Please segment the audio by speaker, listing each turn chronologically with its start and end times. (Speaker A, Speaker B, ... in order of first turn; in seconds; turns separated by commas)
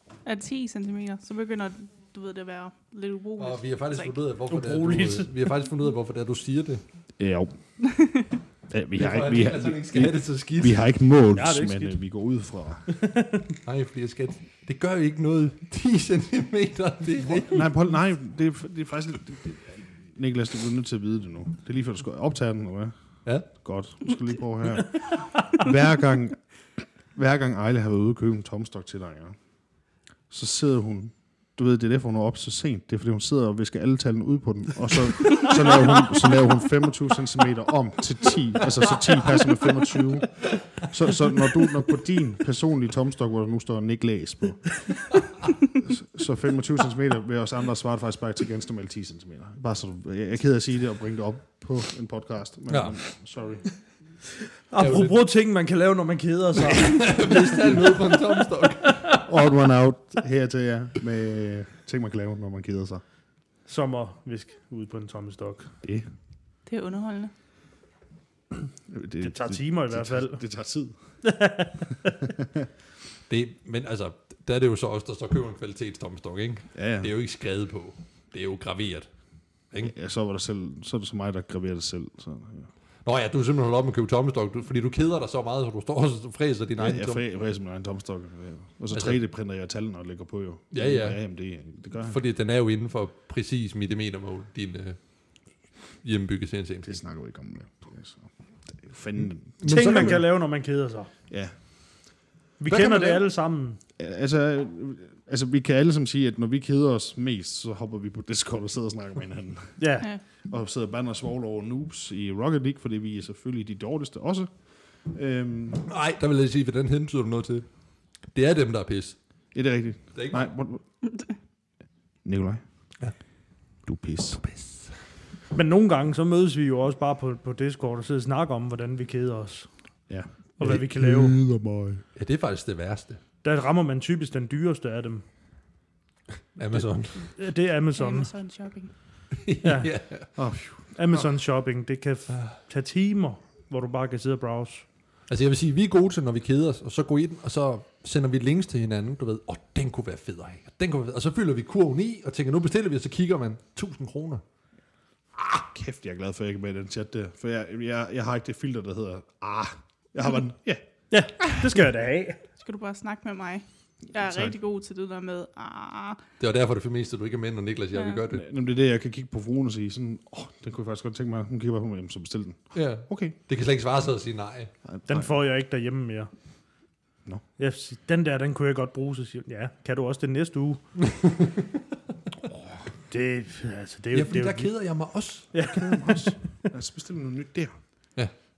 Speaker A: 0.2-4.2, Speaker B: 3.4-6.8, Speaker C: 4.5-5.3, Speaker D: 7.2-7.6, Speaker A: 7.8-8.3, Speaker D: 8.7-12.9, Speaker B: 8.9-10.8, Speaker C: 11.3-12.0, Speaker C: 13.0-13.5, Speaker B: 13.6-17.7, Speaker D: 17.2-22.9, Speaker D: 23.5-26.4, Speaker D: 27.1-29.4, Speaker D: 30.3-45.0, Speaker D: 45.8-53.7, Speaker B: 52.7-53.0, Speaker C: 54.7-59.3, Speaker B: 54.8-55.2, Speaker B: 56.6-59.2, Speaker D: 59.2-63.0, Speaker C: 63.7-65.7, Speaker A: 66.7-67.3, Speaker D: 68.9-70.9, Speaker C: 69.2-70.4, Speaker C: 71.2-72.3, Speaker B: 73.3-79.1, Speaker D: 76.7-77.1, Speaker D: 79.8-82.7, Speaker B: 83.0-87.2, Speaker D: 86.8-92.2, Speaker B: 88.9-89.2, Speaker B: 90.7-91.2, Speaker B: 92.0-95.0, Speaker B: 96.0-96.9, Speaker D: 96.8-100.2, Speaker B: 99.6-100.3, Speaker C: 99.6-101.1, Speaker C: 102.6-103.8, Speaker B: 102.7-103.2, Speaker D: 104.0-109.8, Speaker C: 109.8-110.1, Speaker D: 110.4-114.5, Speaker D: 115.0-115.8, Speaker B: 115.8-117.7, Speaker B: 118.3-119.2, Speaker D: 119.5-120.8, Speaker B: 120.2-120.5, Speaker D: 122.2-122.6, Speaker D: 123.9-124.5, Speaker B: 124.4-124.9, Speaker C: 125.5-129.7, Speaker D: 130.1-132.0, Speaker C: 130.6-131.4, Speaker B: 132.2-133.2, Speaker C: 133.4-135.2, Speaker B: 136.6-137.3, Speaker C: 137.2-138.3, Speaker A: 137.9-138.9, Speaker B: 139.3-140.3, Speaker C: 139.6-139.9, Speaker D: 140.3-141.3, Speaker C: 141.0-144.9, Speaker B: 142.3-142.6, Speaker B: 145.3-154.4, Speaker D: 155.4-160.8, Speaker C: 161.1-162.4, Speaker A: 162.6-166.2, Speaker D: 164.1-164.6, Speaker B: 166.4-168.5, Speaker A: 167.9-168.2, Speaker D: 168.3-173.4, Speaker B: 172.7-174.7, Speaker D: 174.8-175.3, Speaker C: 175.1-176.3, Speaker C: 177.6-180.8, Speaker B: 181.2-181.6, Speaker C: 183.1-184.7, Speaker B: 184.1-185.5, Speaker C: 185.5-186.3, Speaker D: 185.6-187.8